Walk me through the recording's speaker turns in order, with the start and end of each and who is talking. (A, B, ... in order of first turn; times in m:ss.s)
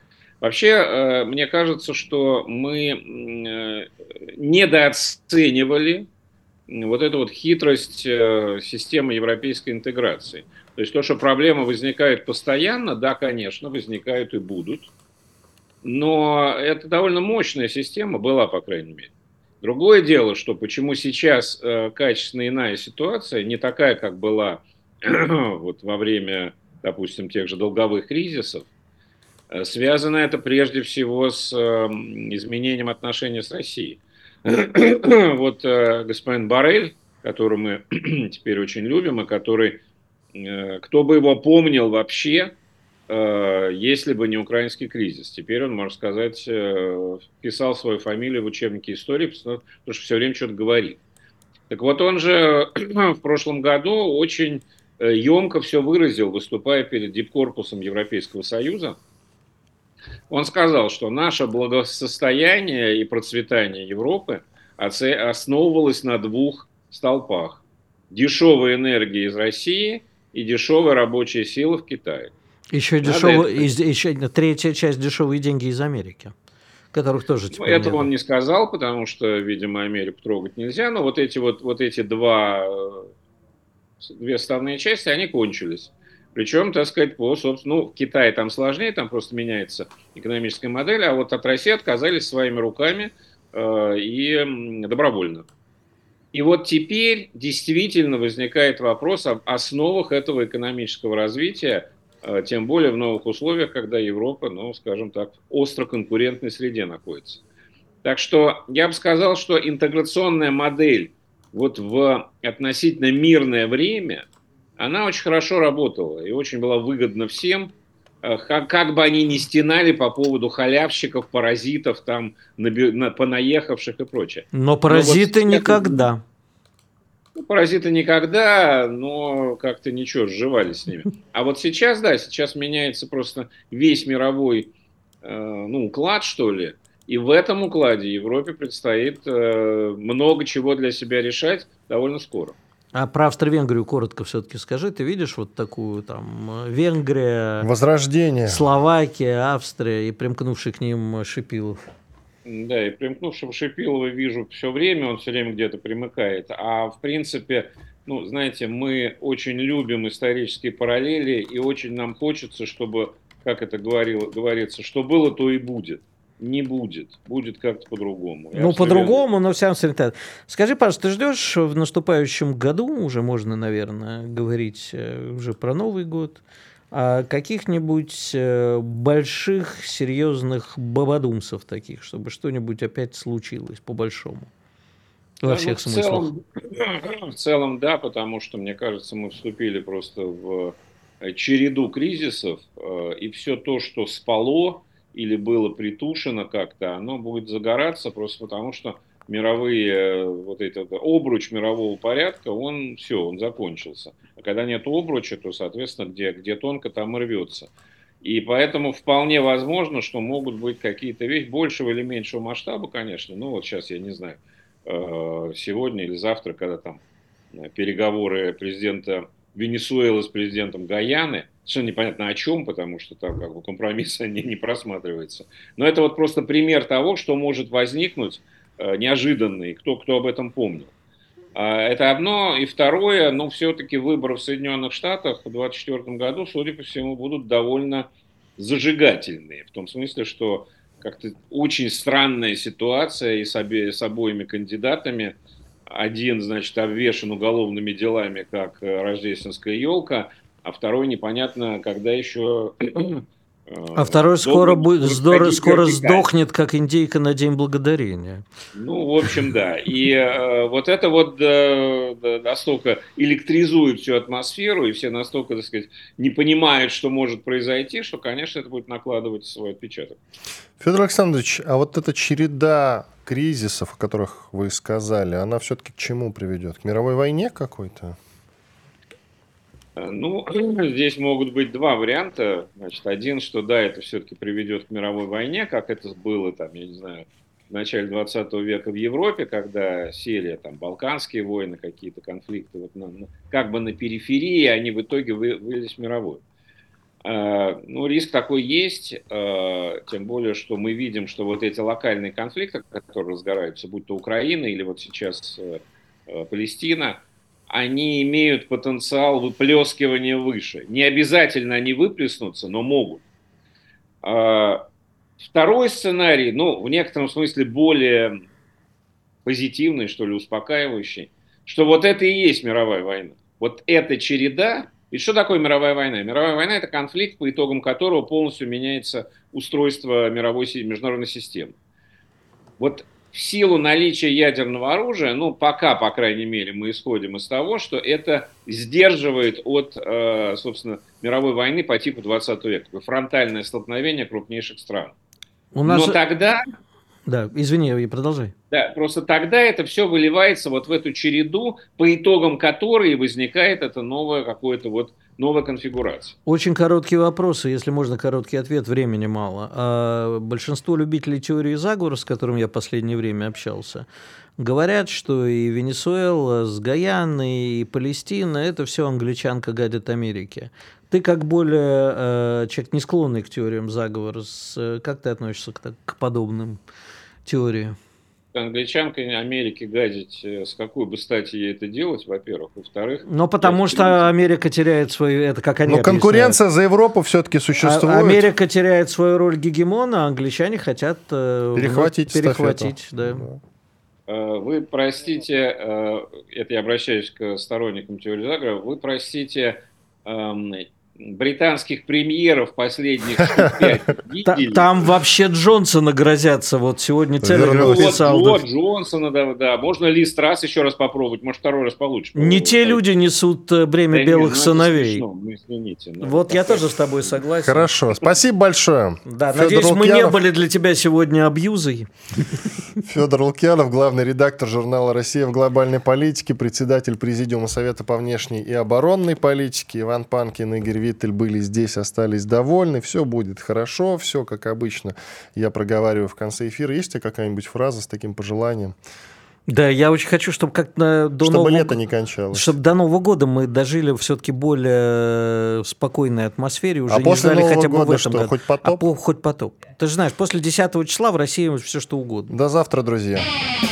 0:00.4-0:06.1 A
0:06.7-0:14.9 A
0:15.8-0:28.7 A
0:29.5-0:39.8 A
0:40.3-0:42.6 A
0:43.1-0:51.0 A
0:51.7-0:59.0 A
1:00.3-1:12.3 A
1:12.7-1:16.3 B
1:13.0-1:13.7 A
1:16.9-1:18.1 B
1:17.5-1:23.1 A
1:24.0-1:35.5 A
1:36.3-1:47.4 A
1:48.0-1:54.3 A
1:54.8-2:06.1 A
2:04.5-2:06.2 B
2:07.3-2:22.6 A
2:23.0-2:27.7 B
2:27.6-2:28.6 C
2:28.4-2:31.8 B
2:32.4-2:49.2 A
2:48.5-3:04.5 B
3:05.4-3:06.3 B
3:05.4-3:27.7 A
3:28.2-3:50.9 A
3:51.6-4:16.3 A
4:14.0-4:18.4 B
4:18.8-4:30.2 A
4:30.8-4:38.2 C
4:40.0-4:56.4 A
4:57.2-5:13.2 A
5:14.2-5:14.8 A
5:15.4-5:18.4 A
5:19.4-5:31.7 A
5:32.8-5:45.1 A
5:45.7-5:46.2 B
5:45.9-5:46.6 A
5:47.3-5:48.5 B
5:48.7-5:56.3 A
5:56.4-6:04.1 B
6:04.6-6:16.8 B
6:17.4-6:18.0 B
6:18.5-6:24.3 A
6:23.3-6:26.6 B
6:25.9-6:28.5 C
6:27.8-6:33.4 B
6:31.7-6:33.6 C
6:34.3-6:45.0 A
6:44.4-6:48.6 B
6:47.4-6:48.3 C
6:47.8-6:53.0 A
6:52.3-6:55.2 B
6:54.1-6:57.4 A
6:56.2-6:57.9 B
6:57.6-7:00.4 C
6:59.3-7:02.7 B
7:03.0-7:19.0 C
7:19.7-7:22.0 B
7:21.4-7:22.7 C
7:22.5-7:32.5 B
7:27.1-7:29.1 C
7:32.5-7:33.5 C